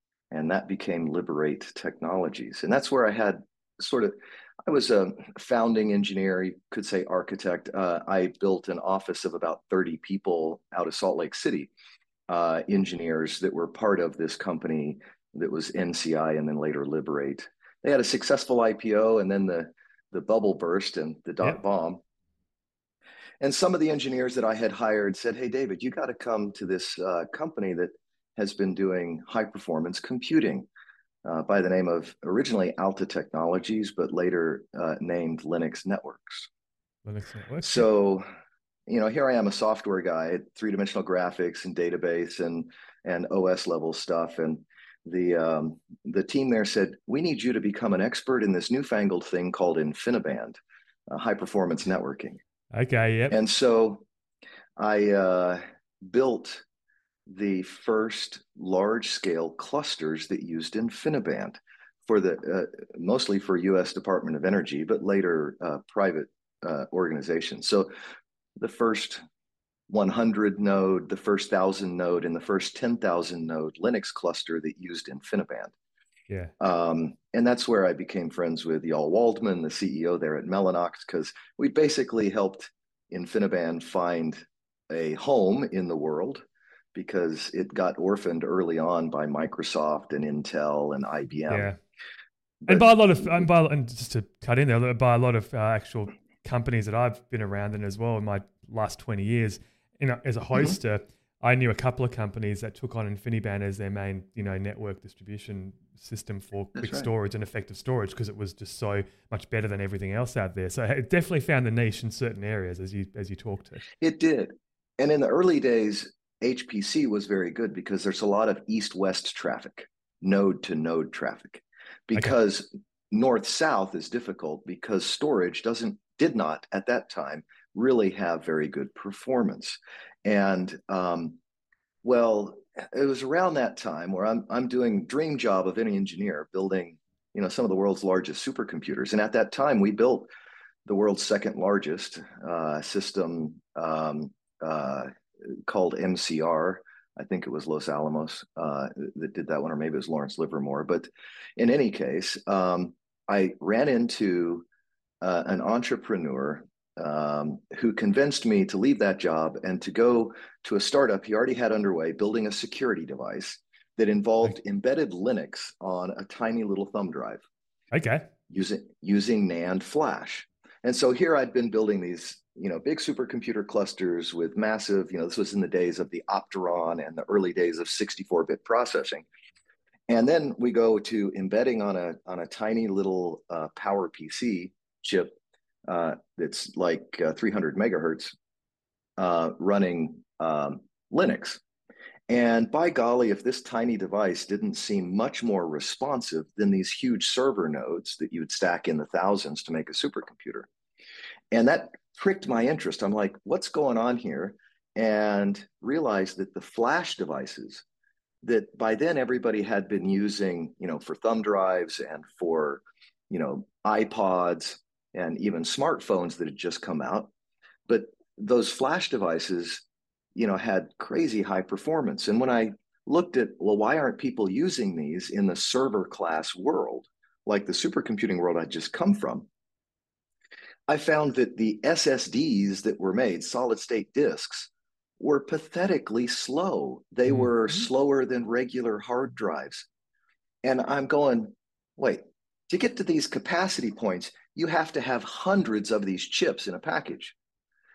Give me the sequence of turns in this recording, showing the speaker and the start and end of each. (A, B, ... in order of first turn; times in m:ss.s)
0:00.3-0:04.1 A
0:04.6-0:11.7 A
0:12.3-0:22.0 A
0:23.4-0:30.7 A
0:31.2-0:36.5 A
0:37.0-0:37.8 B
0:37.6-0:38.2 A
0:38.9-0:52.4 A
0:52.7-0:53.4 B
0:53.3-0:54.0 A
0:54.8-0:56.6 A
0:57.3-1:07.9 A
1:08.6-1:09.2 A
1:09.9-1:15.7 A
1:16.6-1:26.4 A
1:26.9-1:31.7 A
1:31.5-1:31.8 B
1:32.6-1:33.5 A
1:32.7-1:53.8 B
1:46.7-1:47.1 A
1:54.0-2:11.4 A
2:12.0-2:20.3 A
2:20.8-2:34.6 A
2:35.2-2:47.4 A
2:47.9-2:48.3 B
2:48.5-2:59.2 A
3:00.1-3:05.4 A
3:05.9-3:08.3 A
3:09.2-3:11.6 A
3:12.3-3:20.7 A
3:21.5-3:27.8 A
3:28.4-3:37.3 A
3:37.9-3:49.5 A
3:50.9-3:59.9 A
4:00.6-4:07.3 A